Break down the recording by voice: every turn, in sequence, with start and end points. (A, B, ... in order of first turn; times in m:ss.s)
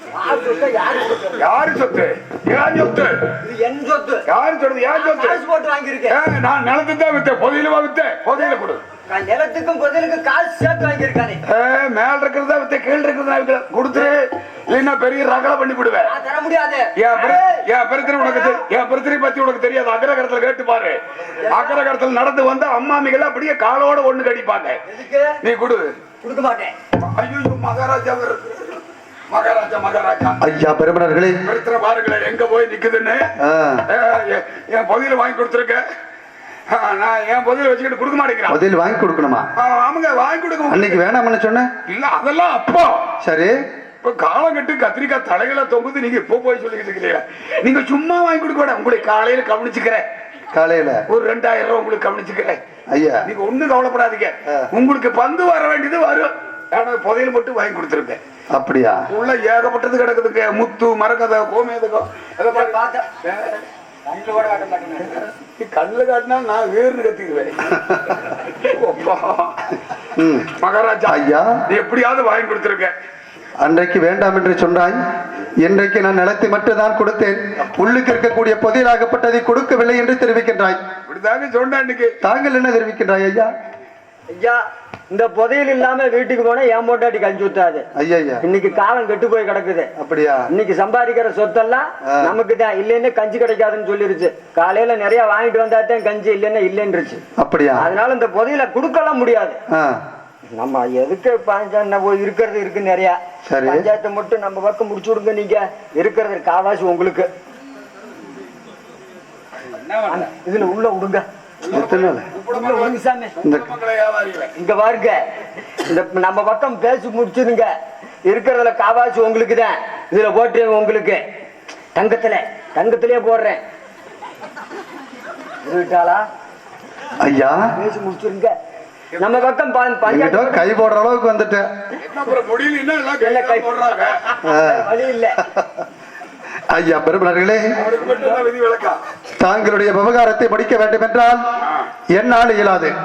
0:00.1-0:01.4 A
0:01.4-0:03.2 B
0:03.4-0:04.3 A
0:04.3-0:05.4 B
0:04.9-0:06.2 A
0:06.1-0:08.8 B
0:09.1-0:11.4 A
0:11.5-0:16.1 B
0:16.0-0:17.6 A
0:17.0-0:24.8 B
0:18.2-0:18.6 A
0:21.4-0:21.8 A
0:24.9-0:25.4 A
0:25.4-0:25.9 B
0:26.2-0:26.7 A
0:27.0-0:30.4 B
0:30.4-0:31.4 C
0:31.5-0:33.3 B
0:33.4-0:33.9 C
0:33.9-0:35.8 B
0:36.7-0:38.6 B
0:38.5-0:39.5 C
0:39.6-0:41.0 B
0:40.7-0:41.7 C
0:41.9-0:43.1 B
0:43.2-0:43.6 C
0:44.0-0:50.0 B
0:50.5-0:51.0 C
0:51.1-0:52.6 B
0:52.9-0:53.3 C
0:53.3-0:58.2 B
0:58.5-0:59.0 C
0:59.1-1:03.5 B
1:02.5-1:03.1 A
1:04.1-1:05.2 A
1:05.6-1:09.6 B
1:07.7-1:08.0 C
1:10.2-1:10.5 C
1:10.6-1:11.2 B
1:11.1-1:11.5 C
1:11.7-1:12.9 B
1:13.6-1:15.0 C
1:15.6-1:20.8 C
1:21.1-1:22.2 B
1:22.2-1:23.5 C
1:24.3-1:27.9 A
1:28.0-1:28.4 C
1:28.4-1:29.9 A
1:30.0-1:30.5 C
1:30.5-1:37.2 A
1:32.1-1:32.3 C
1:37.4-1:37.8 C
1:37.8-1:39.6 A
1:39.7-1:40.0 C
1:40.6-1:47.3 A
1:43.5-1:43.9 C
1:50.1-1:51.3 A
1:51.6-1:54.5 B
1:51.7-1:52.3 C
1:52.5-1:53.4 A
1:54.6-1:55.2 A
1:55.8-1:57.7 A
1:58.3-2:01.2 A
2:02.0-2:03.6 A
2:05.6-2:06.2 A
2:07.2-2:07.6 C
2:07.8-2:08.6 A
2:09.2-2:10.7 A
2:10.1-2:11.7 C
2:12.0-2:14.2 B
2:13.2-2:13.7 A
2:14.4-2:15.4 A
2:14.4-2:15.8 C
2:16.7-2:17.7 C
2:17.8-2:19.0 B
2:19.4-2:21.5 C
2:22.1-2:22.9 C